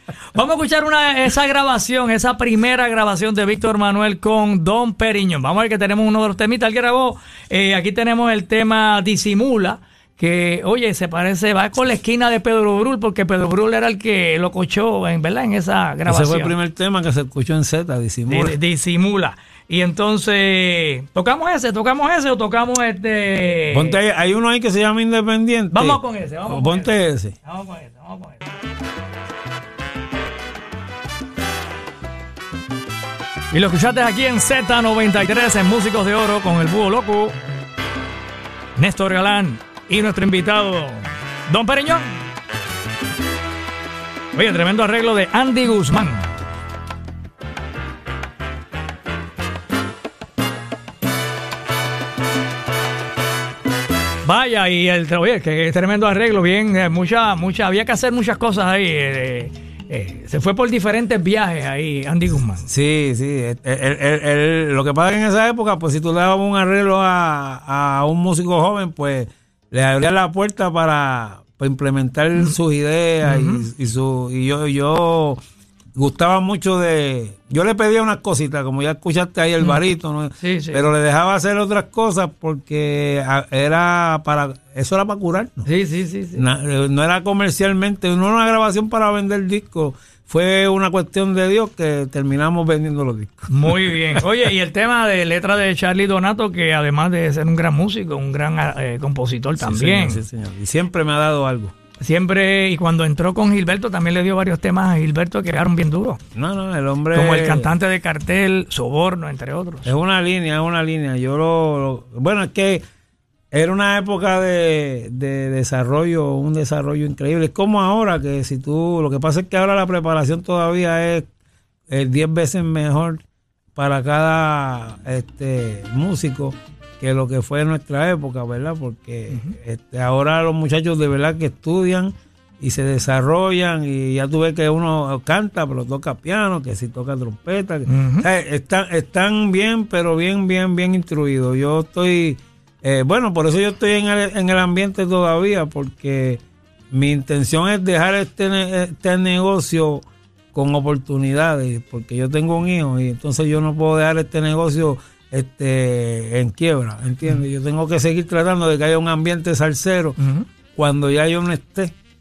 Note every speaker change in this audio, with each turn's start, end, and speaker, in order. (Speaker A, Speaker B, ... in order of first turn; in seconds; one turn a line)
Speaker A: 0.3-16.5
Speaker B: 16.1-18.6
Speaker A: 18.3-23.9
Speaker B: 23.7-27.3
Speaker A: 25.7-26.9
Speaker A: 27.4-28.4
Speaker A: 33.5-37.4
Speaker A: 38.8-42.1
Speaker A: 44.3-46.3
Speaker A: 54.2-62.7
Speaker B: 62.7-75.4
Speaker A: 73.2-73.7
Speaker B: 76.0-85.7
Speaker A: 80.4-80.8
Speaker A: 85.7-86.4
Speaker B: 86.3-94.2
Speaker A: 93.5-100.2
Speaker B: 99.6-101.7
Speaker A: 102.0-106.2
Speaker B: 106.3-107.7
Speaker A: 107.1-109.9
Speaker B: 109.8-112.8
Speaker B: 113.5-121.3
Speaker B: 121.9-123.2
Speaker B: 123.7-150.0
Speaker A: 137.9-138.3
Speaker B: 150.5-160.2
Speaker A: 160.2-160.4
Speaker B: 160.7-161.9